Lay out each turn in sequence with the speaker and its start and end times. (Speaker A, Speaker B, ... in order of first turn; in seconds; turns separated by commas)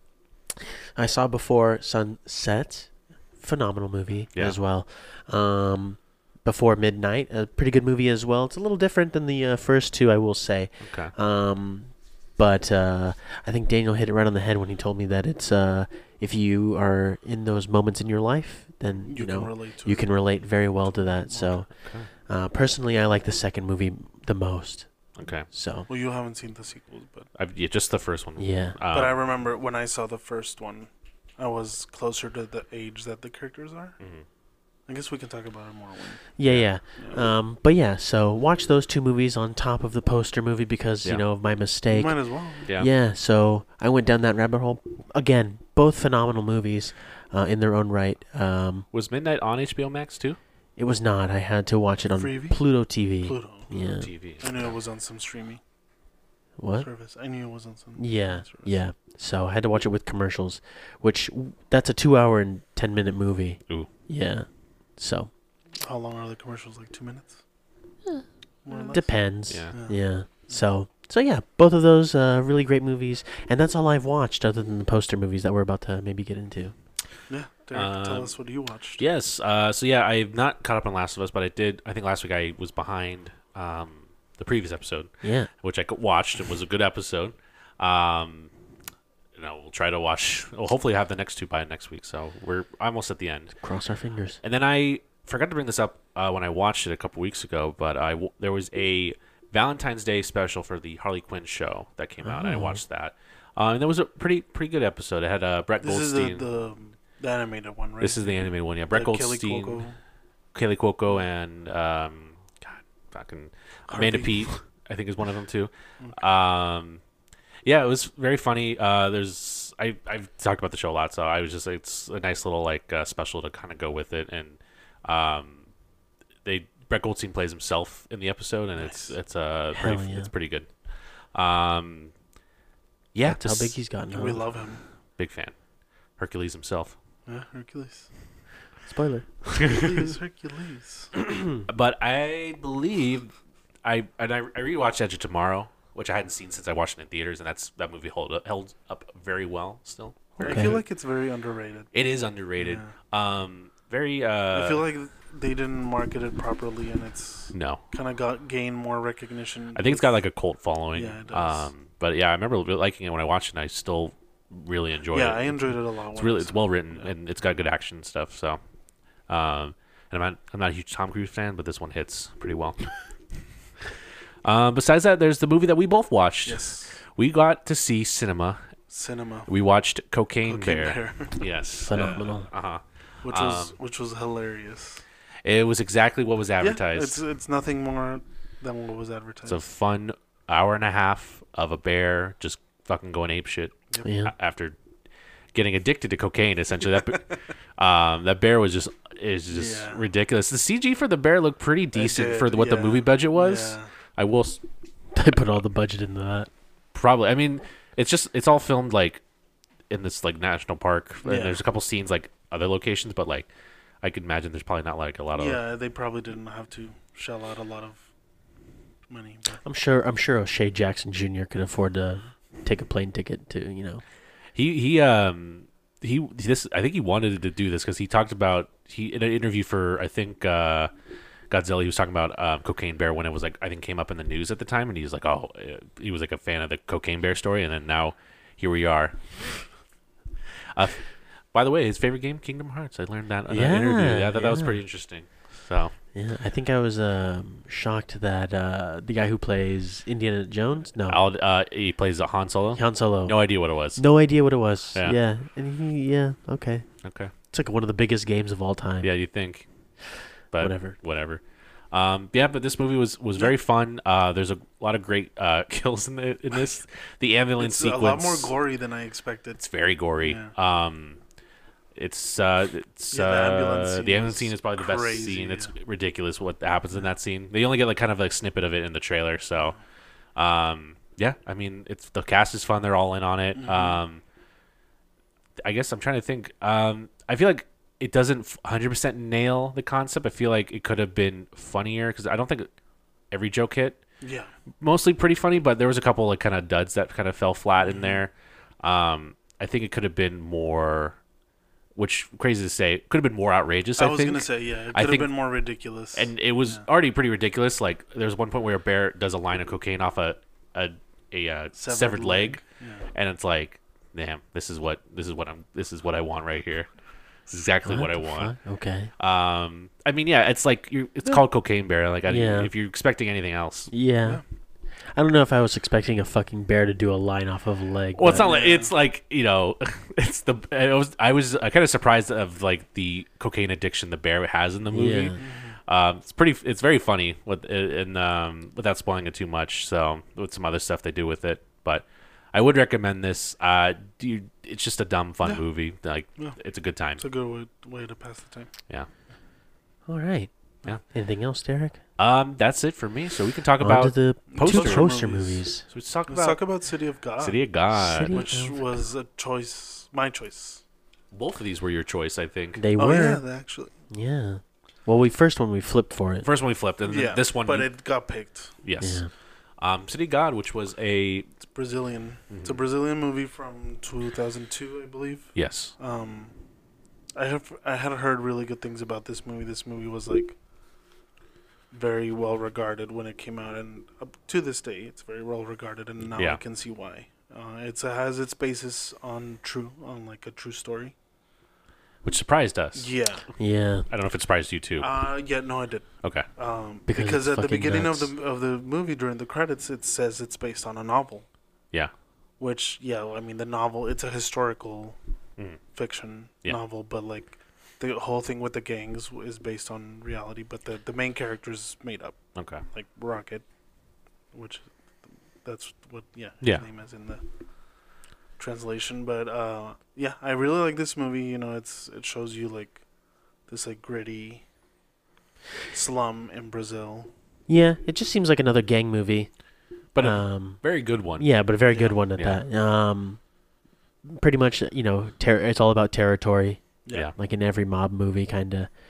Speaker A: 0.9-25.9, Speaker B: 10.8-11.1, Speaker C: 19.1-20.1, Speaker C: 20.9-21.6, Speaker B: 21.7-22.1, Speaker B: 25.1-25.5, Speaker C: 25.9-27.3, Speaker B: 27.3-29.1, Speaker A: 28.4-28.8, Speaker C: 28.9-34.0, Speaker B: 34.0-34.2, Speaker C: 34.9-36.3, Speaker A: 36.4-48.9, Speaker C: 37.0-37.3, Speaker C: 41.9-42.7, Speaker B: 48.9-50.4, Speaker A: 50.8-54.1, Speaker C: 52.1-52.6, Speaker C: 53.2-53.7, Speaker B: 53.7-54.7, Speaker C: 54.4-55.6, Speaker A: 56.6-56.9, Speaker C: 56.8-58.7, Speaker A: 58.0-65.3, Speaker C: 65.8-67.4, Speaker C: 68.6-70.0, Speaker A: 68.7-76.7, Speaker B: 69.5-69.7, Speaker C: 77.3-79.0, Speaker B: 77.7-78.3, Speaker B: 79.0-88.5, Speaker A: 85.2-85.5, Speaker B: 89.3-93.5, Speaker A: 93.6-94.4, Speaker B: 94.4-106.5, Speaker A: 102.2-102.8, Speaker C: 105.8-110.0, Speaker B: 108.0-109.8, Speaker B: 110.5-117.0, Speaker C: 113.9-114.5, Speaker B: 117.6-125.7, Speaker B: 126.4-130.7, Speaker C: 128.8-129.1, Speaker A: 129.7-130.3, Speaker B: 131.3-132.1, Speaker B: 133.1-133.8, Speaker A: 133.2-134.4, Speaker C: 134.1-134.8, Speaker B: 135.2-135.5, Speaker B: 136.2-136.9, Speaker C: 137.2-138.1, Speaker A: 138.9-139.3, Speaker B: 139.5-139.8, Speaker C: 139.6-141.1, Speaker B: 141.7-143.3, Speaker B: 143.8-150.8, Speaker C: 150.4-151.9, Speaker A: 150.4-150.8, Speaker B: 151.9-154.8, Speaker C: 152.6-152.9, Speaker C: 154.5-160.2, Speaker B: 157.5-157.8, Speaker B: 159.7-168.6, Speaker C: 160.9-161.7, Speaker C: 165.1-167.1, Speaker B: 169.3-172.9, Speaker B: 174.4-178.7, Speaker C: 176.4-176.9, Speaker C: 178.9-179.5, Speaker B: 179.5-183.8, Speaker C: 180.4-181.4, Speaker A: 181.8-182.5, Speaker C: 181.9-182.2, Speaker C: 183.2-185.0, Speaker B: 185.4-187.2, Speaker C: 186.6-189.6, Speaker B: 189.4-194.7, Speaker A: 194.0-194.3, Speaker B: 195.5-204.6, Speaker C: 199.5-200.0, Speaker C: 201.9-203.9, Speaker A: 205.1-206.5, Speaker B: 206.9-209.2, Speaker B: 209.9-213.5, Speaker C: 211.2-211.6, Speaker B: 214.0-215.6, Speaker C: 215.3-218.1, Speaker C: 219.1-219.6, Speaker A: 219.6-224.0, Speaker B: 224.5-230.9, Speaker B: 231.5-239.6, Speaker B: 240.7-245.9, Speaker A: 243.5-244.8, Speaker A: 246.1-251.2, Speaker B: 251.1-254.0, Speaker A: 252.8-256.9, Speaker B: 257.0-257.3, Speaker A: 257.5-259.1, Speaker B: 259.0-259.6, Speaker B: 260.5-268.5, Speaker A: 260.6-261.0, Speaker C: 267.6-269.6, Speaker B: 269.6-271.2, Speaker C: 270.2-270.5, Speaker B: 271.9-279.8, Speaker C: 273.1-275.7, Speaker B: 280.4-284.2, Speaker C: 283.6-284.0, Speaker B: 285.6-292.7, Speaker B: 293.3-294.0, Speaker C: 294.2-294.5, Speaker B: 294.8-301.2, Speaker C: 297.8-298.2, Speaker B: 301.9-305.3, Speaker C: 304.0-306.8, Speaker B: 306.1-312.6, Speaker C: 311.8-313.1, Speaker B: 313.1-316.9, Speaker B: 317.5-318.5, Speaker A: 317.8-319.1, Speaker B: 319.2-323.9, Speaker A: 322.3-322.7, Speaker A: 323.9-324.4, Speaker A: 325.1-328.5, Speaker B: 328.1-347.2, Speaker C: 328.3-328.9, Speaker A: 334.9-335.4, Speaker C: 335.4-335.8, Speaker C: 347.2-348.7, Speaker A: 350.1-350.5, Speaker A: 351.1-352.0, Speaker B: 352.2-355.1, Speaker A: 353.8-355.9, Speaker C: 354.5-355.6, Speaker B: 355.9-356.6, Speaker C: 356.3-357.6, Speaker B: 357.4-358.5, Speaker A: 357.9-358.7, Speaker C: 358.3-360.8, Speaker B: 361.3-362.8, Speaker A: 362.8-363.4, Speaker C: 363.0-363.9, Speaker A: 364.1-366.5, Speaker B: 366.4-367.9, Speaker C: 367.0-368.7, Speaker B: 368.8-369.2, Speaker A: 369.0-369.3, Speaker B: 369.8-371.5, Speaker C: 371.7-376.5, Speaker B: 372.5-372.8, Speaker B: 375.5-375.9, Speaker C: 377.3-380.5, Speaker C: 381.9-391.1, Speaker B: 386.3-386.6, Speaker B: 392.2-393.1, Speaker C: 392.9-393.4, Speaker A: 393.6-394.1, Speaker B: 394.1-395.1, Speaker C: 395.0-401.4, Speaker A: 397.1-398.3, Speaker C: 402.6-405.2, Speaker C: 405.9-413.6, Speaker B: 412.5-412.8, Speaker C: 414.5-414.9, Speaker C: 415.6-417.4, Speaker C: 418.6-423.0, Speaker C: 423.7-424.6, Speaker C: 425.9-427.3, Speaker A: 427.7-429.5, Speaker B: 430.1-431.5, Speaker A: 430.2-433.4, Speaker C: 431.9-432.2, Speaker B: 432.4-432.6, Speaker A: 434.2-436.8, Speaker A: 437.4-438.9